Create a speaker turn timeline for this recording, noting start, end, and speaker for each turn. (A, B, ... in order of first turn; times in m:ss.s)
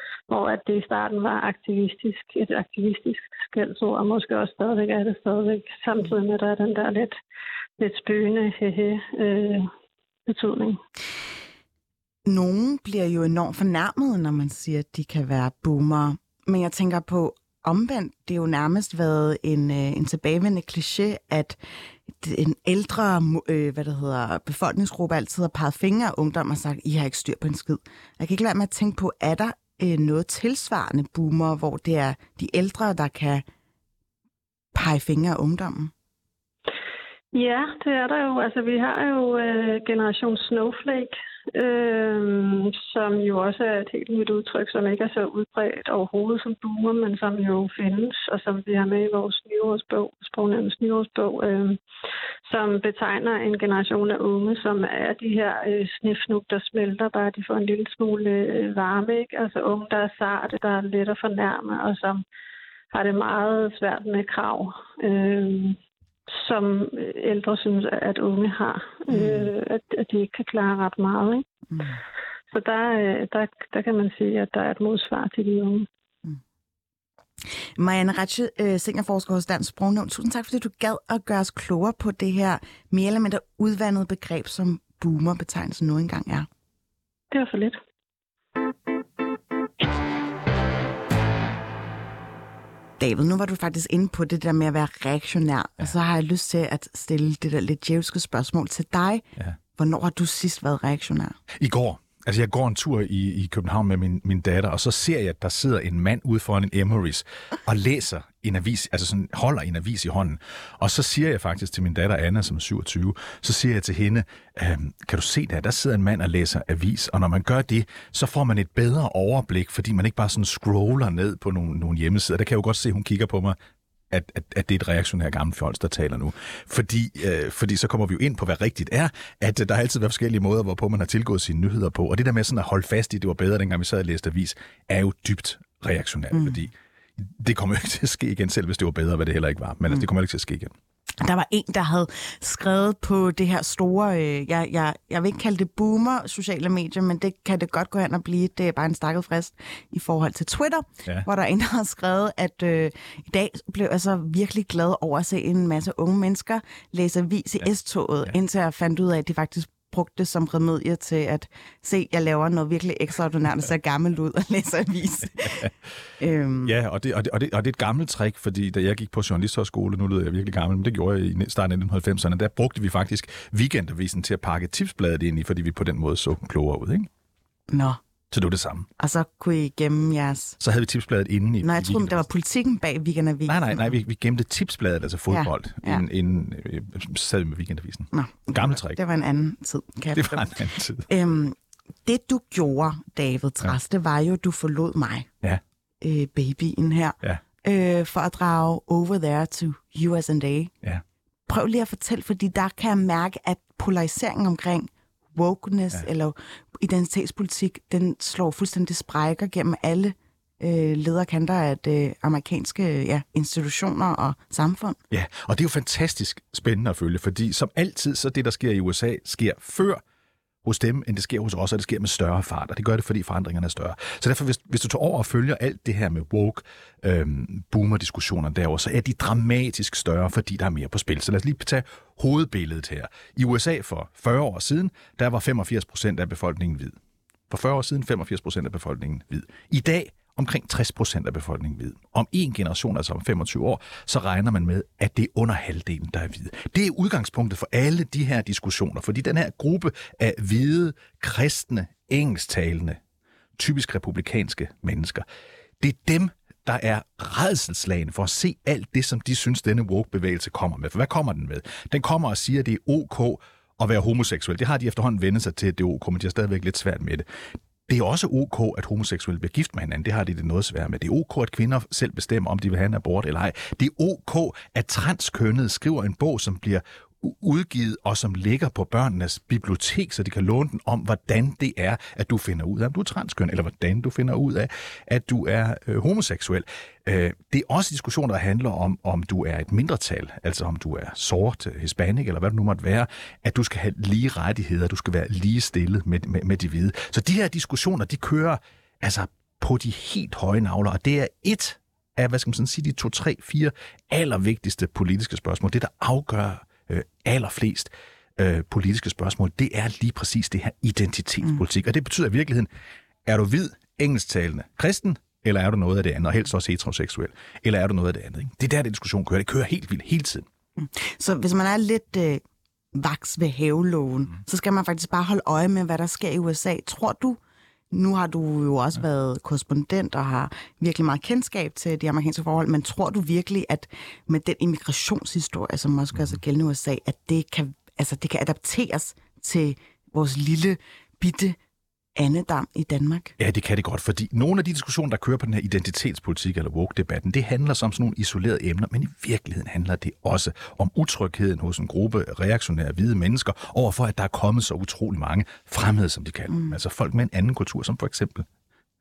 0:00.3-0:07.2 A
0:07.8-0:09.7 A
0:10.3-0:10.8 A
0:12.3-0:21.6 B
0:22.1-0:33.4 B
0:34.7-0:35.9 B
0:37.3-0:51.8 A
0:52.4-1:02.2 A
1:02.9-1:05.8 A
1:06.3-1:11.4 A
1:09.1-1:09.5 B
1:11.7-1:12.0 B
1:12.5-1:15.9 A
1:17.5-1:26.5 B
1:27.3-1:27.8 A
1:33.0-1:39.2 B
1:39.8-1:41.4 B
1:41.6-2:03.6 C
2:04.1-2:20.7 C
2:16.3-2:16.6 B
2:21.2-2:46.7 B
2:45.4-2:45.7 C
2:46.6-2:57.1 C
2:57.7-2:58.0 B
2:58.3-2:58.9 C
2:59.0-3:00.6 B
3:00.6-3:02.3 C
3:01.6-3:03.9 B
3:03.5-3:09.0 C
3:05.3-3:06.0 B
3:08.1-3:10.6 B
3:10.1-3:11.1 C
3:11.1-3:15.3 B
3:16.0-3:20.7 B
3:21.5-3:35.0 B
3:35.1-3:40.0 C
3:40.6-3:57.0 C
3:57.5-4:13.0 C
4:13.6-4:15.3 C
4:15.8-4:27.3 C
4:27.9-5:12.7 C
5:13.2-5:20.5 C
5:20.8-5:22.4 B
5:22.9-5:27.4 B
5:27.9-5:41.6 B
5:42.2-5:43.4 B
5:43.4-5:58.5 C
5:56.5-5:56.8 B